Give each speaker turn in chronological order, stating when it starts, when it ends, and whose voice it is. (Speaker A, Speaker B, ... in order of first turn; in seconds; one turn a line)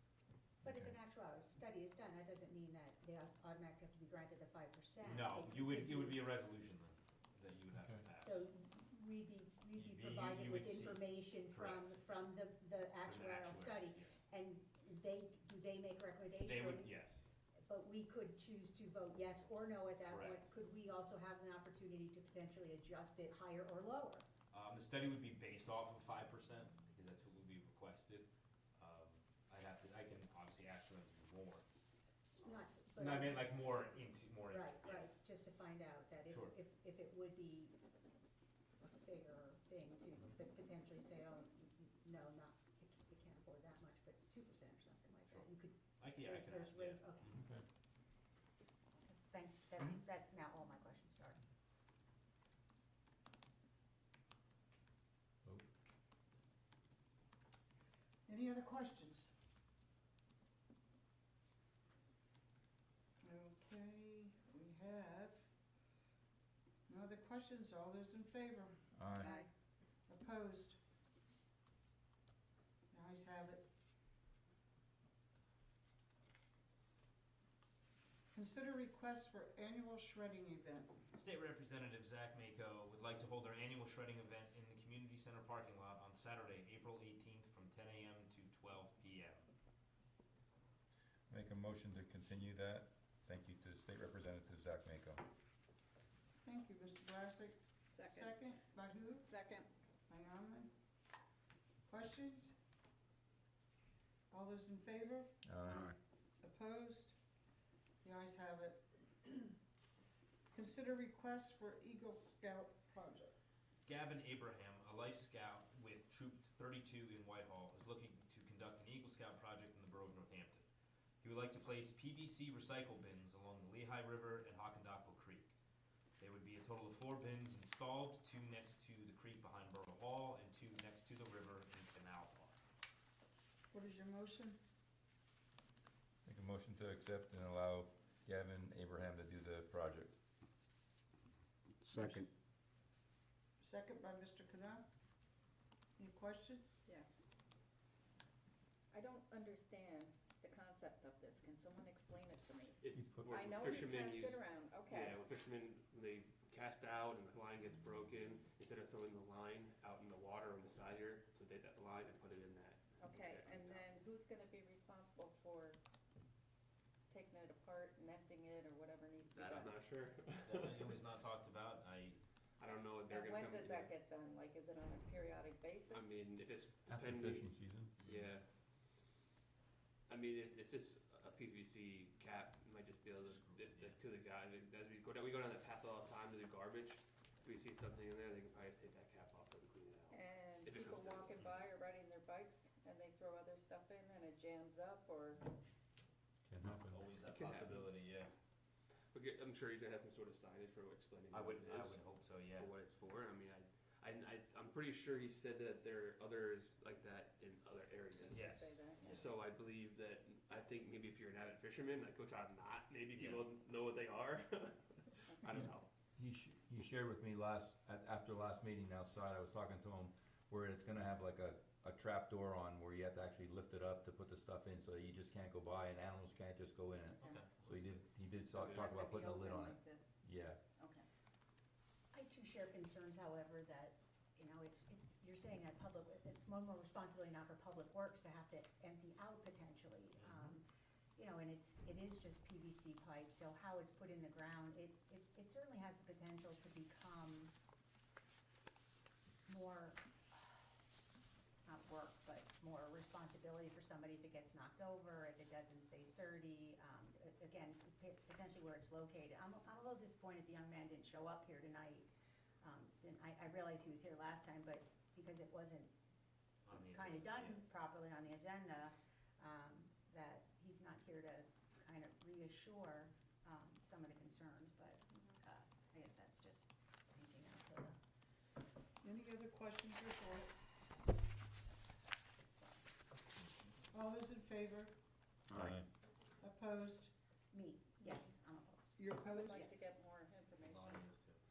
Speaker A: 0.6-6.2
Speaker B: 5.0-8.4
Speaker A: 8.1-16.9
Speaker B: 9.8-11.9
Speaker B: 13.0-14.2
Speaker B: 16.4-17.2
Speaker A: 17.6-24.2
Speaker B: 20.0-20.4
Speaker B: 24.5-31.6
Speaker A: 32.4-33.8
Speaker B: 33.0-35.0
Speaker A: 34.4-37.7
Speaker B: 36.3-36.5
Speaker A: 38.8-47.4
Speaker B: 45.3-47.5
Speaker A: 49.0-51.4
Speaker C: 58.2-59.3
Speaker C: 63.2-65.4
Speaker C: 66.9-69.3
Speaker D: 68.9-69.3
Speaker A: 69.2-69.5
Speaker C: 70.1-70.8
Speaker C: 72.9-73.6
Speaker C: 78.3-81.0
Speaker B: 81.1-89.4
Speaker D: 91.3-95.2
Speaker C: 96.4-99.3
Speaker E: 97.9-98.4
Speaker E: 99.2-99.7
Speaker C: 100.1-100.7
Speaker C: 101.9-102.5
Speaker C: 104.3-105.3
Speaker D: 105.4-105.9
Speaker C: 106.4-107.1
Speaker C: 108.0-109.5
Speaker C: 110.5-113.3
Speaker B: 113.8-120.7
Speaker B: 121.2-125.5
Speaker B: 126.2-132.6
Speaker C: 133.7-134.6
Speaker D: 136.2-140.1
Speaker C: 143.6-144.8
Speaker C: 146.0-146.7
Speaker E: 146.8-147.2
Speaker E: 148.9-155.2
Speaker F: 152.8-163.9
Speaker D: 153.0-153.3
Speaker E: 163.0-165.8
Speaker E: 167.1-169.8
Speaker F: 169.3-171.0
Speaker B: 170.4-172.2
Speaker F: 172.6-173.9
Speaker E: 173.0-176.3
Speaker F: 175.9-178.4
Speaker D: 176.9-177.9
Speaker B: 178.0-178.3
Speaker F: 180.1-191.4
Speaker B: 183.2-184.0
Speaker E: 190.1-195.5
Speaker D: 196.5-197.0
Speaker B: 196.6-198.3
Speaker F: 197.2-198.0
Speaker F: 199.1-215.9
Speaker B: 201.3-202.7
Speaker B: 208.3-209.3
Speaker E: 208.4-209.2
Speaker B: 213.1-213.4
Speaker D: 216.2-230.6
Speaker B: 227.2-228.0
Speaker E: 228.5-230.2
Speaker F: 228.5-228.9
Speaker E: 230.8-231.1
Speaker A: 232.1-240.7
Speaker A: 241.2-247.5
Speaker A: 249.5-250.6
Speaker A: 251.7-262.1
Speaker A: 262.6-265.9
Speaker B: 266.7-267.6
Speaker A: 266.7-278.0
Speaker C: 279.0-280.7
Speaker C: 283.9-284.9
Speaker B: 285.5-285.8
Speaker C: 286.4-287.1
Speaker A: 287.5-289.7
Speaker C: 289.0-289.6
Speaker E: 289.3-291.1
Speaker B: 290.6-291.4